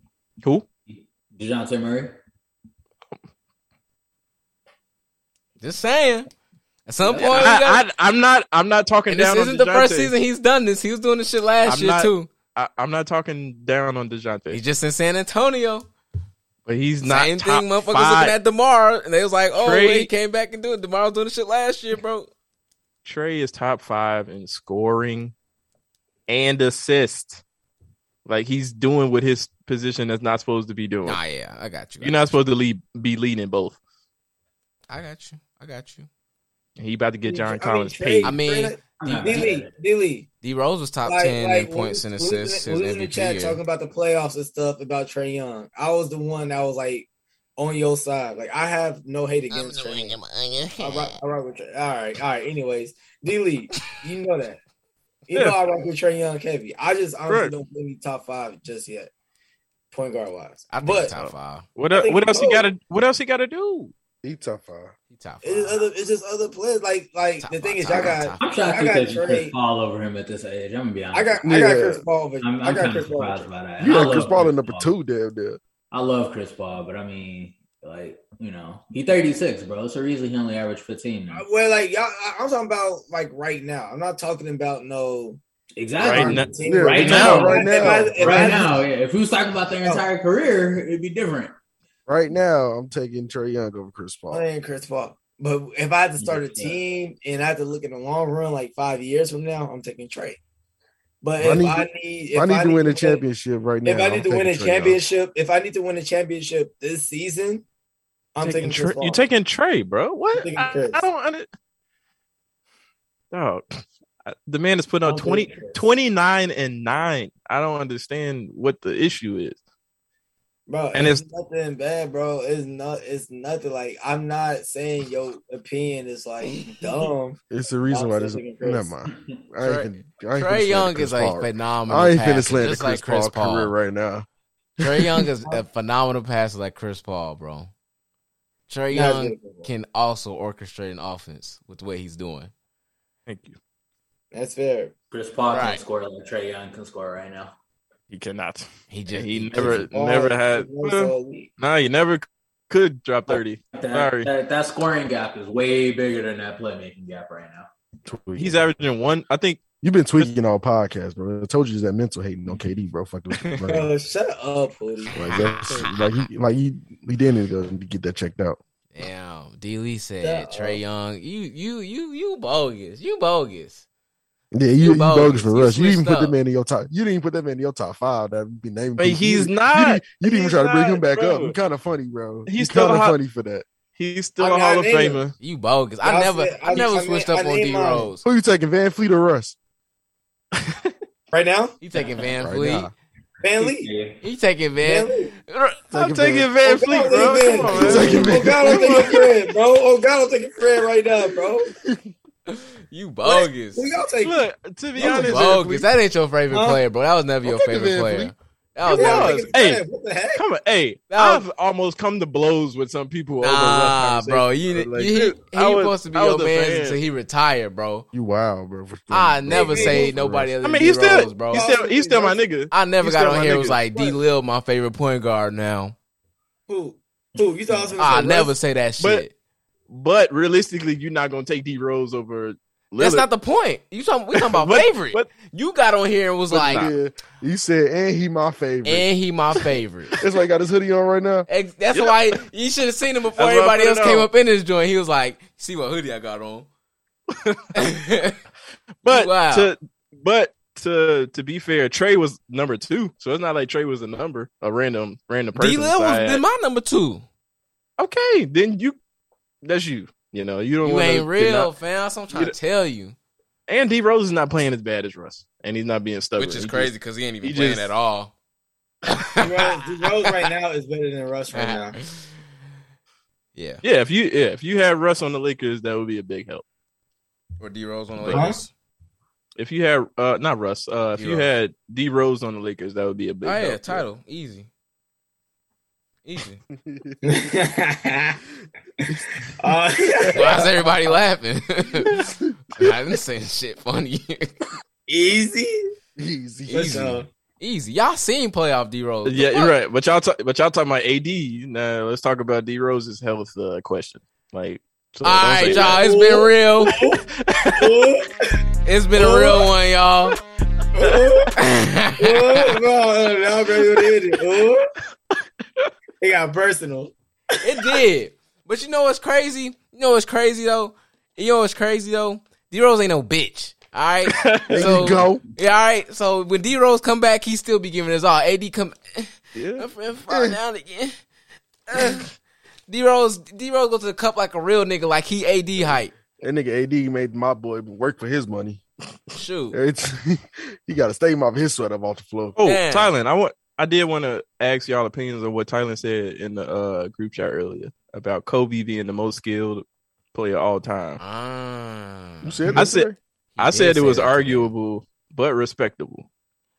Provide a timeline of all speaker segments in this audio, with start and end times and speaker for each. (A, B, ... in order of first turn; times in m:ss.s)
0:00.9-0:02.2 A
0:05.6-0:06.3 B
0:06.9-0:07.8 B
0:07.0-0:07.5 A
0:07.2-0:10.1 C
0:09.1-0:12.3 B
0:11.7-0:14.6 C
0:14.5-0:15.9 B
0:16.7-0:18.4 C
0:17.0-0:22.3 B
0:19.6-0:20.1 C
0:23.0-0:25.3 C
0:26.3-0:27.4 C
0:28.3-0:31.2 C
0:31.1-0:32.3 B
0:32.0-0:33.8 C
0:34.9-0:36.1 B
0:36.8-0:38.4 C
0:37.2-0:40.3 D
0:38.2-0:38.8 B
0:39.0-0:39.7 A
0:40.4-0:43.6 B
0:41.1-0:50.2 D
0:49.6-0:50.9 B
0:50.8-0:54.6 D
0:55.3-0:59.1 D
0:57.3-0:57.5 C
0:59.9-1:01.1 D
1:00.7-1:01.7 B
1:01.1-1:03.9 C
1:01.9-1:02.7 D
1:04.2-1:04.9 E
1:05.1-1:05.8 B
1:05.4-1:09.5 D
1:07.4-1:08.5 B
1:08.4-1:11.4 A
1:11.1-1:14.3 D
1:11.4-1:12.0 E
1:12.4-1:14.9 A
1:13.8-1:15.6 E
1:15.9-1:21.4 A
1:21.3-1:25.4 D
1:25.8-1:31.6 A
1:26.0-1:27.5 C
1:26.0-1:28.8 D
1:26.6-1:28.6 E
1:32.1-1:34.4 E
1:34.3-1:40.4 D
1:36.2-1:36.8 A
1:41.2-1:43.2 D
1:41.4-1:45.0 E
1:43.8-1:47.6 D
1:48.4-1:49.2 D
1:48.4-1:51.5 C
1:50.3-1:51.0 D
1:53.3-1:59.6 C
1:55.1-1:55.8 A
2:00.7-2:08.9 D
2:00.9-2:01.2 C
2:07.5-2:14.3 E
2:09.6-2:13.7 B
2:14.8-2:15.3 E
2:14.8-2:17.7 B
2:18.7-2:22.5 B
2:18.9-2:19.7 D
2:23.3-2:23.6 C
2:24.3-2:24.9 D
2:25.1-2:27.5 A
2:25.5-2:25.8 B
2:28.1-2:34.3 C
2:28.9-2:29.8 B
2:29.9-2:31.5 D
2:33.3-2:37.7 A
2:38.1-2:38.6 E
2:38.4-2:39.6 C
2:39.8-2:43.9 E
2:43.4-2:43.7 C
2:43.7-2:45.2 D
2:45.1-2:48.6 E
2:45.2-2:46.2 B
2:48.9-2:53.8 B
2:50.2-2:50.8 D
2:54.5-3:03.7 E
2:54.8-2:56.4 B
2:59.0-3:01.6 C
3:02.5-3:03.2 C
3:04.0-3:05.4 C
3:04.4-3:05.2 D
3:05.4-3:08.2 B
3:06.0-3:08.1 D
3:08.2-3:09.6 E
3:10.6-3:10.9 C
3:11.3-3:11.8 D
3:11.8-3:12.9 B
3:11.9-3:12.4 A
3:12.4-3:12.9 E
3:13.4-3:13.9 D
3:13.6-3:14.2 A
3:14.2-3:15.8 B
3:14.8-3:15.3 D
3:15.9-3:16.5 E
3:15.9-3:19.2 C
3:16.6-3:21.7 D
3:17.7-3:19.3 E
3:21.6-3:22.1 E
3:22.5-3:23.8 B
3:23.2-3:24.4 D
3:24.2-3:25.9 C
3:25.0-3:29.4 B
3:25.0-3:25.4 E
3:26.5-3:26.8 D
3:27.4-3:28.3 E
3:28.9-3:30.4 D
3:28.9-3:29.8 C
3:30.3-3:37.0 C
3:31.1-3:31.5 B
3:33.4-3:38.1 B
3:38.1-3:40.5 E
3:39.1-3:41.7 B
3:39.5-3:40.1 D
3:40.6-3:43.8 C
3:41.5-3:42.4 D
3:42.7-3:46.0 B
3:43.9-3:44.2 D
3:46.7-3:48.5 D
3:47.4-3:48.0 A
3:48.0-3:49.3 B
3:49.9-3:53.3 C
3:53.0-3:56.9 B
3:54.3-3:55.3 C
3:56.5-3:59.1 E
3:58.8-4:00.1 B
4:00.2-4:01.5 E
4:01.5-4:06.7 B
4:01.9-4:02.4 C
4:03.4-4:04.3 C
4:07.3-4:07.9 C
4:07.8-4:08.4 B
4:09.0-4:16.4 C
4:09.1-4:09.7 B
4:15.6-4:17.3 B
4:18.0-4:19.0 C
4:19.6-4:21.7 C
4:20.8-4:23.2 B
4:23.7-4:27.9 C
4:26.4-4:28.3 B
4:29.1-4:30.4 B
4:29.4-4:32.0 D
4:31.5-4:32.3 B
4:33.6-4:33.8 B
4:33.8-4:36.6 C
4:37.6-4:38.7 B
4:38.2-4:38.5 C
4:38.3-4:38.6 D
4:39.6-4:44.0 C
4:41.2-4:41.5 B
4:43.4-4:44.7 B
4:46.2-4:46.6 B
4:46.8-4:47.2 E
4:47.2-4:48.4 D
4:49.0-4:50.7 D
4:50.2-4:50.4 E
4:50.3-4:54.5 B
4:52.1-4:52.9 E
4:55.1-4:55.9 D
4:56.2-4:57.2 E
4:56.7-4:57.3 D
4:56.7-4:59.7 B
4:59.3-5:06.0 C
5:05.2-5:07.0 B
5:05.6-5:08.5 D
5:06.9-5:08.1 C
5:08.8-5:10.4 B
5:11.0-5:11.6 D
5:11.6-5:12.7 B
5:12.2-5:14.9 D
5:13.8-5:14.1 C
5:16.2-5:17.1 D
5:17.6-5:31.2 B
5:24.3-5:25.2 C
5:24.7-5:25.4 E
5:29.6-5:29.9 C
5:30.3-5:30.6 E
5:31.9-5:32.3 B
5:32.9-5:36.1 B
5:36.4-5:38.8 E
5:39.3-5:39.8 B
5:39.7-5:42.6 E
5:42.6-5:51.2 C
5:42.6-5:43.1 B
5:51.2-5:52.9 B
5:52.4-5:53.2 E
5:52.8-5:56.3 C
5:53.6-5:54.7 B